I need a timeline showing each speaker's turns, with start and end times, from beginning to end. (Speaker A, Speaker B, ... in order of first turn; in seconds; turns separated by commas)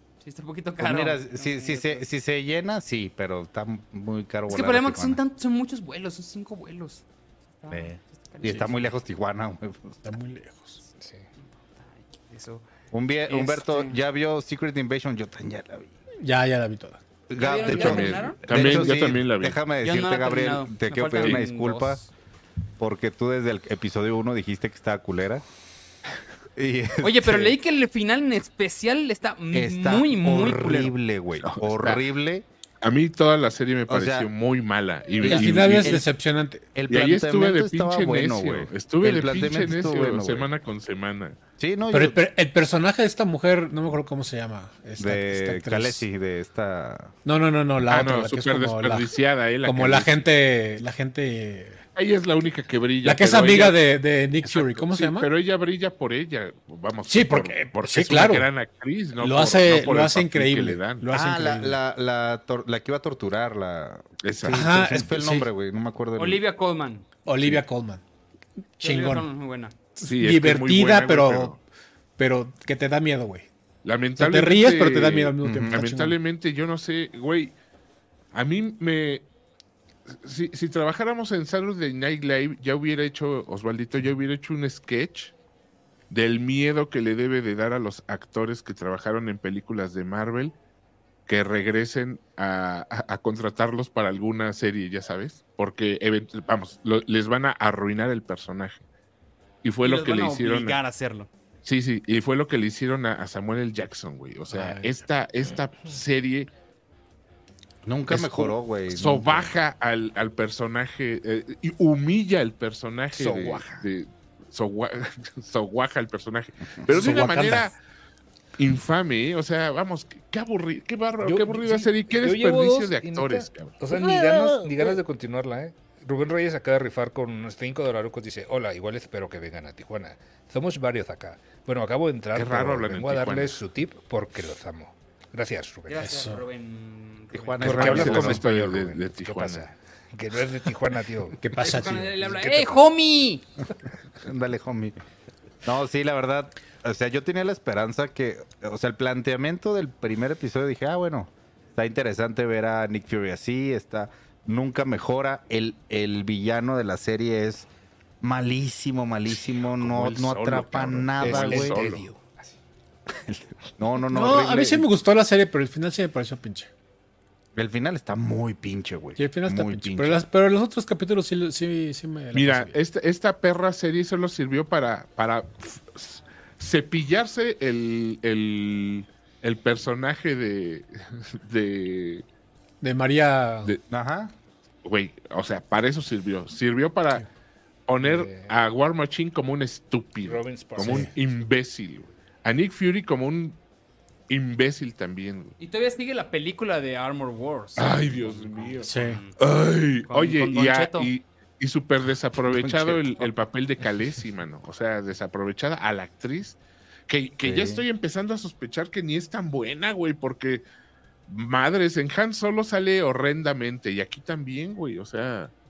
Speaker A: 0.2-2.0, Speaker B: 0.8-5.2, Speaker A: 4.5-7.0, Speaker A: 7.6-9.0, Speaker B: 7.7-10.0, Speaker C: 10.0-10.8, Speaker A: 11.7-12.6, Speaker B: 12.9-15.9, Speaker A: 13.3-14.0, Speaker C: 16.2-17.0, Speaker B: 17.3-22.0, Speaker A: 17.4-18.9, Speaker D: 17.6-19.6, Speaker A: 19.8-22.1, Speaker B: 22.8-25.4, Speaker B: 26.6-27.6, Speaker A: 27.0-30.9, Speaker B: 29.5-32.5, Speaker D: 31.4-32.0, Speaker D: 32.8-36.0, Speaker B: 33.9-34.3, Speaker B: 35.2-36.1, Speaker C: 35.2-36.7, Speaker B: 36.7-40.5, Speaker D: 36.9-41.4, Speaker B: 41.6-42.2, Speaker C: 41.9-46.0, Speaker B: 45.0-47.1, Speaker C: 47.2-49.1, Speaker D: 47.9-50.2, Speaker C: 49.6-51.8, Speaker D: 52.0-53.8, Speaker C: 53.0-55.3, Speaker D: 54.4-61.1, Speaker C: 57.1-58.5, Speaker C: 59.2-61.8, Speaker B: 61.1-66.4, Speaker D: 64.2-64.7, Speaker C: 64.5-65.5, Speaker A: 66.2-67.0, Speaker C: 67.2-68.0, Speaker C: 68.8-69.3, Speaker A: 68.8-69.7, Speaker C: 70.0-71.6, Speaker D: 70.0-71.6, Speaker C: 72.2-73.5, Speaker D: 73.8-77.5, Speaker C: 74.2-76.2, Speaker B: 75.4-75.8, Speaker D: 78.3-79.2, Speaker D: 80.1-85.3, Speaker D: 86.1-90.5, Speaker D: 91.3-98.8, Speaker D: 99.6-100.8, Speaker A: 99.8-101.3, Speaker D: 101.6-106.5, Speaker C: 104.5-104.9, Speaker B: 107.8-109.5, Speaker D: 108.1-117.8, Speaker E: 113.2-113.7, Speaker C: 116.9-117.7, Speaker D: 118.6-123.8, Speaker E: 121.2-136.1, Speaker D: 132.3-133.6, Speaker A: 135.9-137.9, Speaker C: 136.0-136.4, Speaker B: 137.3-138.4, Speaker E: 137.6-142.8, Speaker D: 137.6-139.7, Speaker C: 141.4-142.2, Speaker A: 141.6-143.4, Speaker B: 144.2-144.9, Speaker B: 145.6-157.7, Speaker B: 158.2-161.8, Speaker D: 159.7-162.1, Speaker E: 161.2-162.2, Speaker B: 163.1-164.8, Speaker C: 164.1-166.7, Speaker B: 167.5-170.2, Speaker C: 169.2-172.7, Speaker D: 172.3-182.2, Speaker C: 182.8-183.7, Speaker B: 183.9-184.3, Speaker D: 184.8-187.2, Speaker D: 187.9-193.6, Speaker E: 188.0-188.5, Speaker E: 190.2-191.1, Speaker C: 190.8-191.1, Speaker D: 194.3-195.6, Speaker A: 195.6-199.4, Speaker D: 197.8-198.9, Speaker C: 198.8-199.2, Speaker D: 199.4-210.6, Speaker A: 200.1-201.1, Speaker B: 202.5-203.2, Speaker B: 207.4-207.8, Speaker D: 211.3-215.5